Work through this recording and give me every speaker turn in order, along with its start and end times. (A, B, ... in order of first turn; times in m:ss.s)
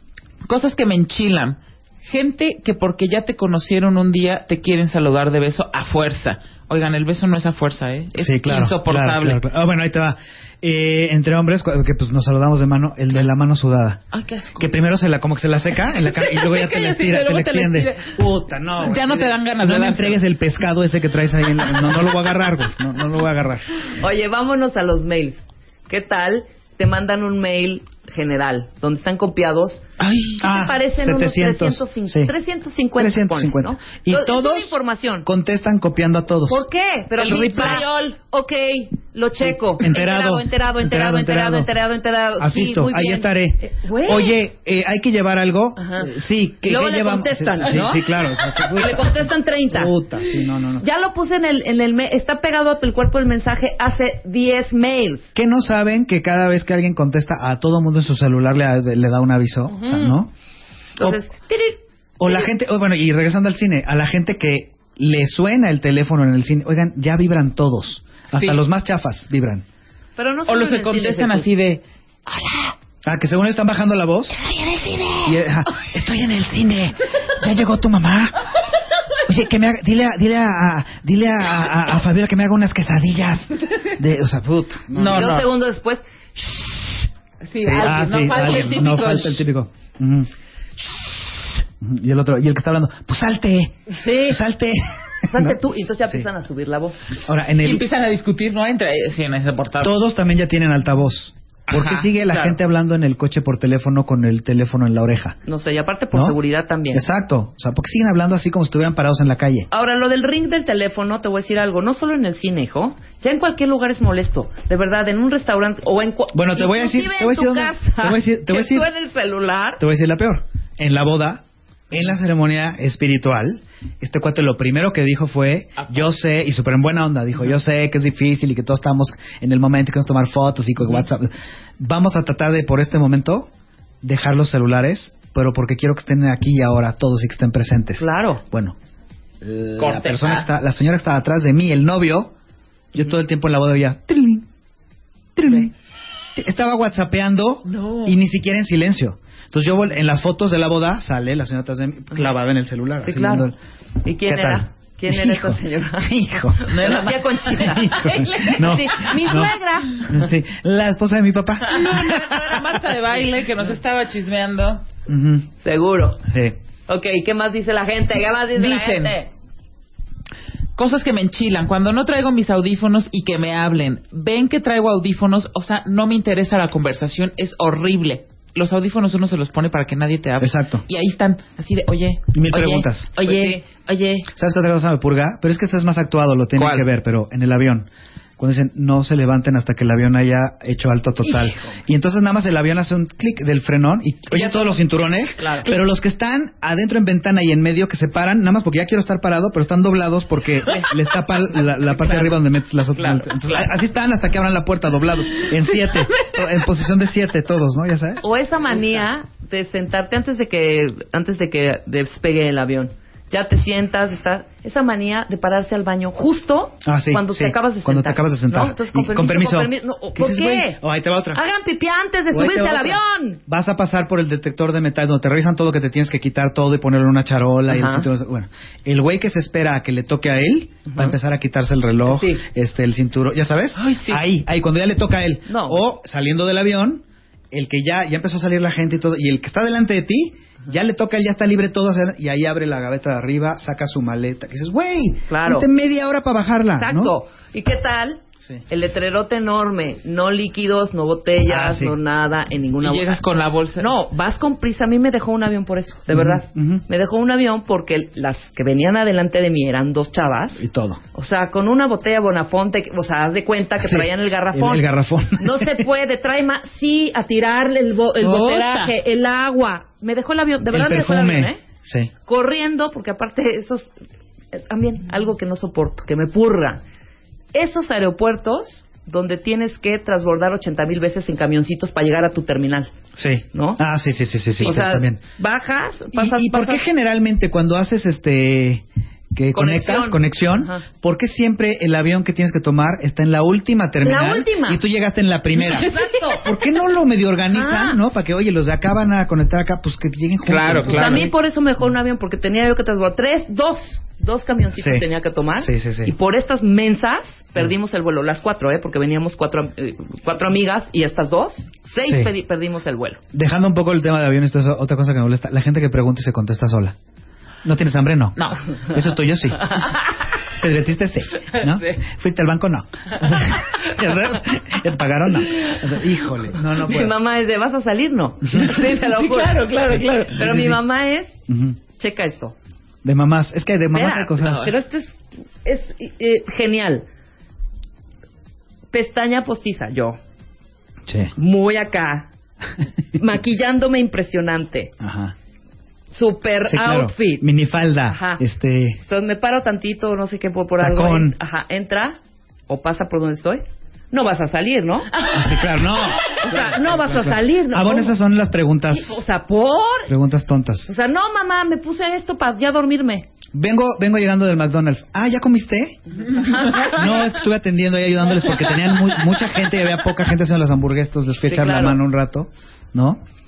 0:00.4-0:09.4 A
0:08.2-0:14.0 B
0:14.1-0:14.7 A
0:14.6-0:23.7 B
0:15.9-0:18.2 A
0:18.8-0:20.2 A
0:24.0-0:29.8 C
0:30.0-0:30.4 A
0:30.4-0:32.3 B
0:30.4-0:35.3 C
0:33.0-0:36.6 B
0:36.5-0:44.4 C
0:37.2-0:38.1 A
0:39.4-0:41.7 B
0:42.4-0:50.8 B
0:45.8-0:46.1 C
0:46.6-0:49.9 C
0:50.8-0:55.3 C
0:55.3-1:00.3 B
0:59.7-1:00.1 C
1:01.0-1:02.5 C
1:01.0-1:01.2 B
1:02.2-1:09.6 B
1:08.3-1:08.6 A
1:10.2-1:11.5 C
1:10.5-1:12.7 A
1:13.0-1:14.4 B
1:14.4-1:15.3 A
1:15.2-1:18.4 B
1:19.2-1:25.4 B
1:24.9-1:25.5 A
1:25.1-1:27.0 C
1:27.4-1:29.4 A
1:27.6-1:30.3 B
1:31.8-1:36.2 B
1:33.9-1:34.4 C
1:35.2-1:37.1 C
1:37.2-1:37.8 B
1:37.6-1:39.9 A
1:39.8-1:45.4 B
1:41.7-1:42.0 A
1:42.2-1:42.6 C
1:45.4-1:47.0 C
1:46.1-1:46.4 B
1:46.9-1:49.7 B
1:49.7-1:59.8 C
1:56.3-1:58.9 B
1:59.8-2:13.5 B
2:05.8-2:06.1 A
2:14.0-2:18.8 B
2:18.0-2:18.4 C
2:19.4-2:22.3 B
2:19.8-2:20.5 A
2:22.9-2:24.5 B
2:25.4-2:25.7 B
2:26.4-2:33.6 B
2:27.6-2:28.2 A
2:33.0-2:33.5 C
2:34.0-2:40.2 C
2:34.2-2:36.6 B
2:36.7-2:39.4 A
2:37.6-2:42.6 B
2:41.6-2:44.8 A
2:45.1-2:45.5 B
2:45.6-2:46.2 C
2:46.3-2:46.6 B
2:46.9-2:49.3 C
2:48.5-2:49.2 A
2:50.8-3:04.3 A
3:00.4-3:00.8 B
3:02.3-3:03.1 B
3:03.2-3:03.6 C
3:04.3-3:07.9 B
3:06.6-3:06.9 A
3:08.4-3:28.2 B
3:14.3-3:15.6 C
3:20.6-3:21.0 A
3:21.6-3:22.3 A
3:23.0-3:23.7 A
3:25.7-3:26.5 A
3:28.2-3:40.8 C
3:36.8-3:41.4 B
3:41.3-3:43.4 C
3:42.3-4:07.1 B
3:47.7-3:48.1 C
3:50.9-3:51.1 C
3:52.1-3:52.4 C
3:53.8-3:54.2 A
3:55.5-3:55.8 C
4:05.3-4:05.7 C
4:06.8-4:13.2 C
4:11.4-4:12.0 B
4:12.8-4:13.9 A
4:13.8-4:20.6 C
4:16.1-4:16.8 B
4:20.6-4:21.0 B
4:21.1-4:31.6 C
4:23.8-4:25.9 B
4:28.2-4:28.9 A
4:30.7-4:32.1 B
4:32.3-4:33.9 C
4:34.5-4:36.8 C
4:37.5-4:42.9 C
4:43.2-4:45.2 B
4:43.5-4:43.8 C
4:44.6-4:46.8 C
4:46.1-5:01.3 B
4:49.5-4:50.8 C
4:54.0-4:54.8 C
4:55.7-4:56.2 A
4:55.8-4:56.5 C
4:57.5-4:58.0 C
5:00.4-5:01.3 A
5:00.8-5:13.2 C
5:04.8-5:05.0 B
5:05.6-5:06.1 B
5:12.0-5:12.3 B
5:13.3-5:17.0 B
5:17.6-5:27.2 B
5:18.4-5:18.6 A
5:19.6-5:20.1 C
5:26.6-5:29.7 C
5:28.6-5:30.5 A
5:30.3-5:31.4 C
5:30.3-5:30.8 B
5:31.5-5:31.8 B
5:32.0-5:32.6 C
5:33.0-5:34.7 B
5:33.9-5:37.0 C
5:38.9-5:40.2 C
5:41.1-5:41.3 B
5:41.4-5:42.3 C
5:43.1-5:44.9 C
5:45.0-5:45.3 B
5:46.1-5:47.5 C
5:46.6-5:49.0 B
5:48.1-5:48.4 C
5:49.0-5:55.2 C
5:50.8-5:51.4 B
5:55.2-5:56.7 A
5:55.3-5:59.2 B
5:56.4-5:58.2 C
5:58.9-6:00.1 C
6:00.1-6:00.9 B
6:00.9-6:03.3 C
6:03.5-6:06.0 B
6:06.2-6:07.1 C
6:06.4-6:07.1 A
6:06.8-6:13.2 B
6:08.7-6:09.2 A
6:11.4-6:12.0 C